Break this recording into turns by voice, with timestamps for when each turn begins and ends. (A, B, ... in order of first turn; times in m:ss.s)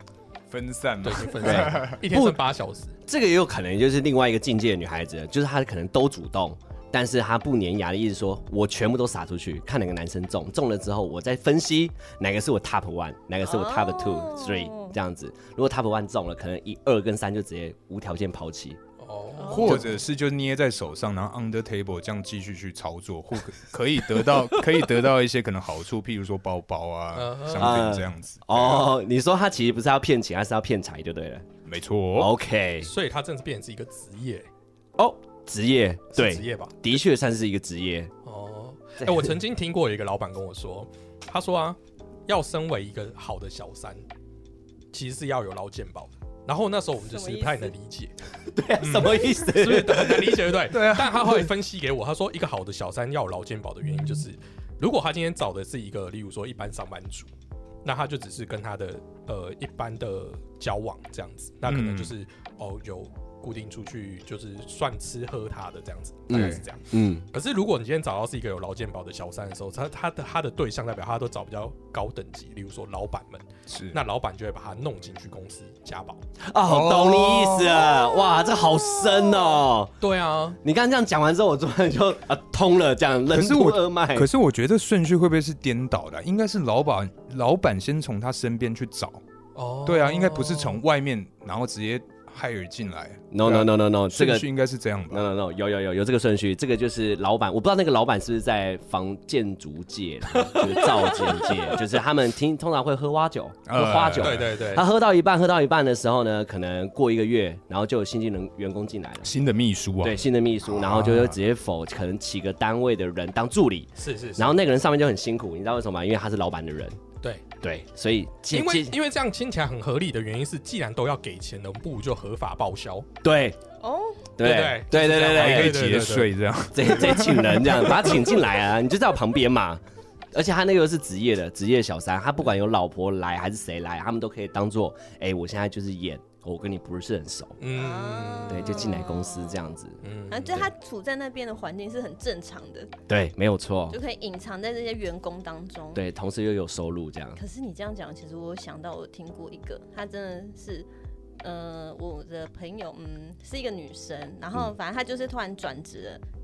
0:00.5-0:02.0 A
0:01.0-0:03.0 B
0:01.4-0:02.4 C
0:03.0-0:18.8 C
0:13.4-0:14.9 D
0:19.0-0:19.9 B
0:19.4-0:19.9 D
0:19.5-0:28.9 A
0:24.4-0:24.8 B
0:27.1-0:27.9 B
0:27.6-0:31.5 C
0:31.6-0:32.3 A
0:32.1-0:32.9 C
0:32.8-0:34.5 B
0:35.0-0:38.1 C
0:36.2-0:37.0 B
0:38.2-0:44.0 B
0:39.0-0:39.4 C
0:44.9-0:48.2 B
0:47.0-0:47.7 D
0:48.5-0:50.5 C
0:48.8-0:57.3 B
0:50.7-0:51.5 A
0:57.8-1:16.2 B
1:01.7-1:02.1 A
1:06.3-1:07.3 C
1:06.3-1:06.6 A
1:13.7-1:14.0 A
1:16.4-1:19.9 C
1:16.6-1:17.9 A
1:17.9-1:19.5 D
1:20.0-1:20.6 B
1:20.6-1:24.3 C
1:23.3-1:29.2 A
1:29.6-1:30.8 B
1:29.8-1:35.2 A
1:33.3-1:34.5 C
1:35.1-1:49.3 C
1:43.7-1:44.5 A
1:44.1-1:44.9 B
1:49.2-1:51.4 A
1:50.0-1:57.0 C
1:54.0-1:54.6 B
1:57.6-1:59.0 C
1:58.5-2:03.1 B
2:03.2-2:03.6 C
2:03.8-2:04.3 D
2:04.4-2:05.9 C
2:04.4-2:06.3 B
2:05.1-2:08.3 A
2:06.7-2:09.8 C
2:10.3-2:17.6 C
2:17.6-2:18.8 B
2:17.7-2:19.6 D
2:18.5-2:20.0 C
2:20.0-2:20.7 B
2:20.3-2:22.9 D
2:23.1-2:24.0 C
2:23.9-2:26.0 D
2:25.9-2:27.4 C
2:27.4-2:30.9 D
2:31.4-2:36.2 D